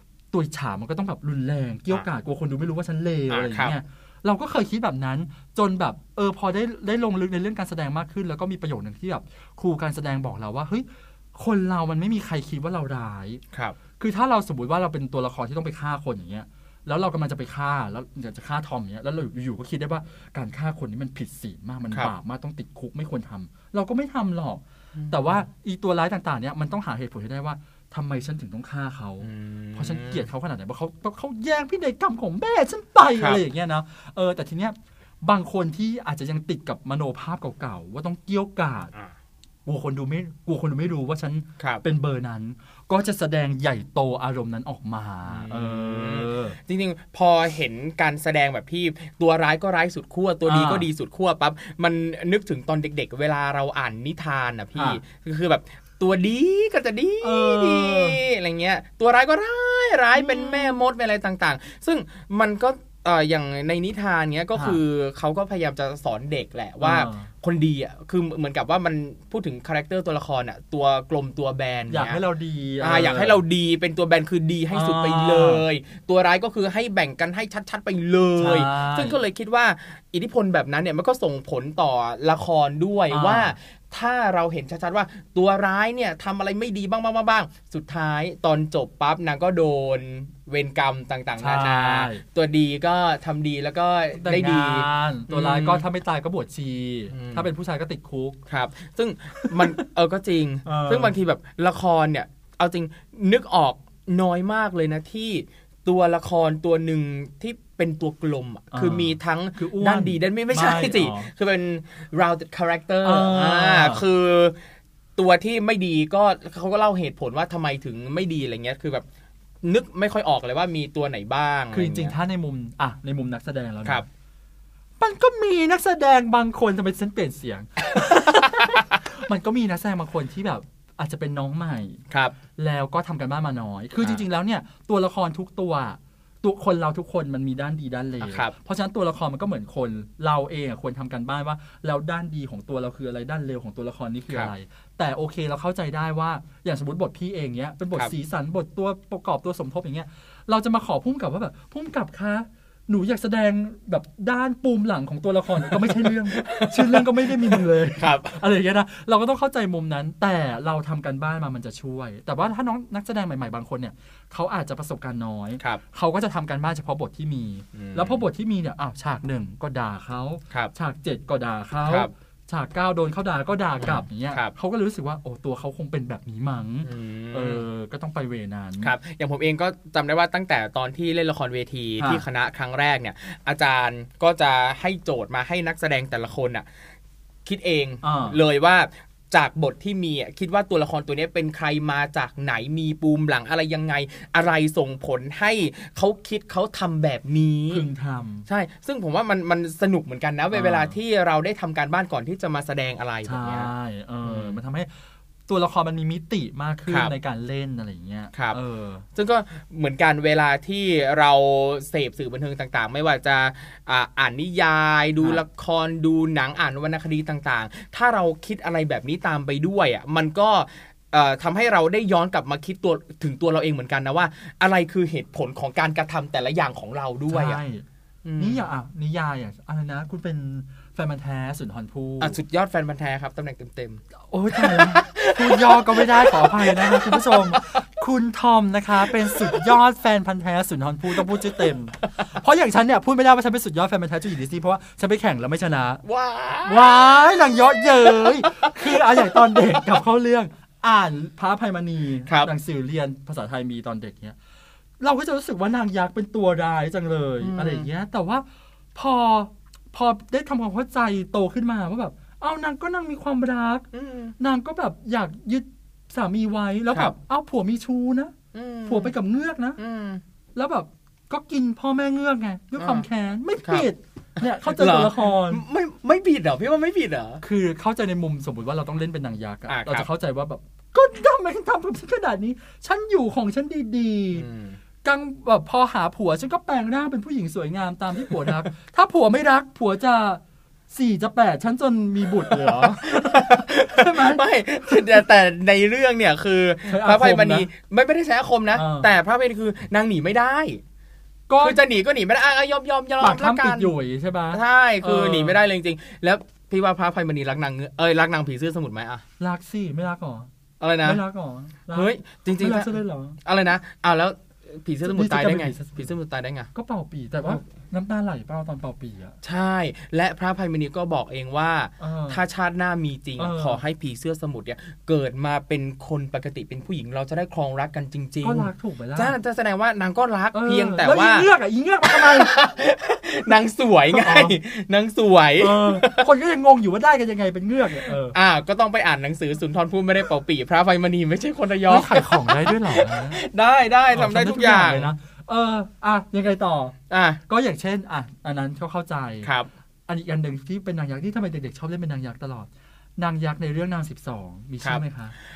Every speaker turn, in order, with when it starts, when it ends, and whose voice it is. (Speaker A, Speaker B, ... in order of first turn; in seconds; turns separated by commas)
Speaker A: 0.3-13.4, Speaker B: 3.3-3.8, Speaker A: 14.0-38.9, Speaker B: 24.9-25.4, Speaker B: 29.2-30.3, Speaker B: 33.2-33.4, Speaker A: 39.6-46.5, Speaker B: 41.6-41.8, Speaker B: 45.2-72.2, Speaker A: 50.5-50.9, Speaker A: 54.7-55.0, Speaker A: 57.2-58.2, Speaker A: 60.1-60.8, Speaker A: 64.5-64.8, Speaker A: 66.8-67.3, Speaker A: 71.9-73.4, Speaker B: 72.8-95.8, Speaker A: 74.7-75.6, Speaker A: 78.4-79.2, Speaker A: 83.1-83.5, Speaker A: 91.4-92.2, Speaker A: 94.2-98.4, Speaker B: 97.1-97.5, Speaker B: 98.5-114.5, Speaker A: 99.4-99.8, Speaker A: 100.6-101.1, Speaker A: 108.7-111.3, Speaker A: 113.0-114.0, Speaker B: 115.2-119.0, Speaker B: 119.6-122.1, Speaker A: 121.7-124.0, Speaker A: 125.0-132.0, Speaker B: 132.1-132.3, Speaker A: 132.6-178.9, Speaker B: 138.2-138.5, Speaker B: 155.7-158.4, Speaker B: 167.7-168.2, Speaker B: 171.8-172.1, Speaker B: 173.8-174.5, Speaker B: 176.8-177.6, Speaker B: 178.8-186.7, Speaker A: 182.0-182.2, Speaker B: 187.4-197.8, Speaker A: 188.0-188.4, Speaker A: 197.7-198.4, Speaker B: 198.4-203.7, Speaker A: 200.5-200.9, Speaker A: 203.2-204.9, Speaker B: 204.2-204.6, Speaker A: 205.5-209.1, Speaker B: 206.9-207.1, Speaker B: 208.3-208.6, Speaker B: 209.1-227.6, Speaker A: 227.3-227.8, Speaker B: 228.2-228.7, Speaker A: 228.4-232.4, Speaker B: 232.2-234.0, Speaker A: 234.3-246.0, Speaker B: 234.5-237.8, Speaker B: 239.0-239.8, Speaker B: 241.2-241.6, Speaker B: 246.0-247.2, Speaker A: 246.6-254.3, Speaker B: 248.0-249.8, Speaker B: 252.2-252.5, Speaker A: 255.0-263.9, Speaker B: 257.4-257.9, Speaker B: 263.9-264.3, Speaker A: 264.4-268.3, Speaker B: 268.5-269.1, Speaker A: 268.9-269.8, Speaker B: 269.8-270.2, Speaker A: 270.5-275.6, Speaker B: 272.8-273.1, Speaker B: 274.6-277.4, Speaker A: 277.4-284.4, Speaker B: 279.7-280.1, Speaker B: 284.3-284.8, Speaker A: 285.0-294.4, Speaker B: 292.5-300.8, Speaker A: 296.8-297.7, Speaker A: 298.7-299.1, Speaker A: 301.5-301.8, Speaker B: 301.6-303.9, Speaker A: 303.2-305.6, Speaker B: 304.5-309.2, Speaker A: 309.4-310.5, Speaker B: 310.8-311.2, Speaker A: 311.0-313.4, Speaker B: 311.9-316.7, Speaker A: 315.0-316.1, Speaker A: 316.7-319.4, Speaker B: 319.4-331.5, Speaker A: 322.0-322.4, Speaker A: 323.4-323.8, Speaker A: 328.4-329.4, Speaker A: 330.5-332.5, Speaker B: 332.1-336.2, Speaker A: 334.1-334.6, Speaker A: 335.6-338.4, Speaker B: 338.0-345.1, Speaker A: 341.8-343.4, Speaker A: 344.1-346.9, Speaker B: 347.1-347.4, Speaker A: 347.5-349.5, Speaker A: 350.1-355.3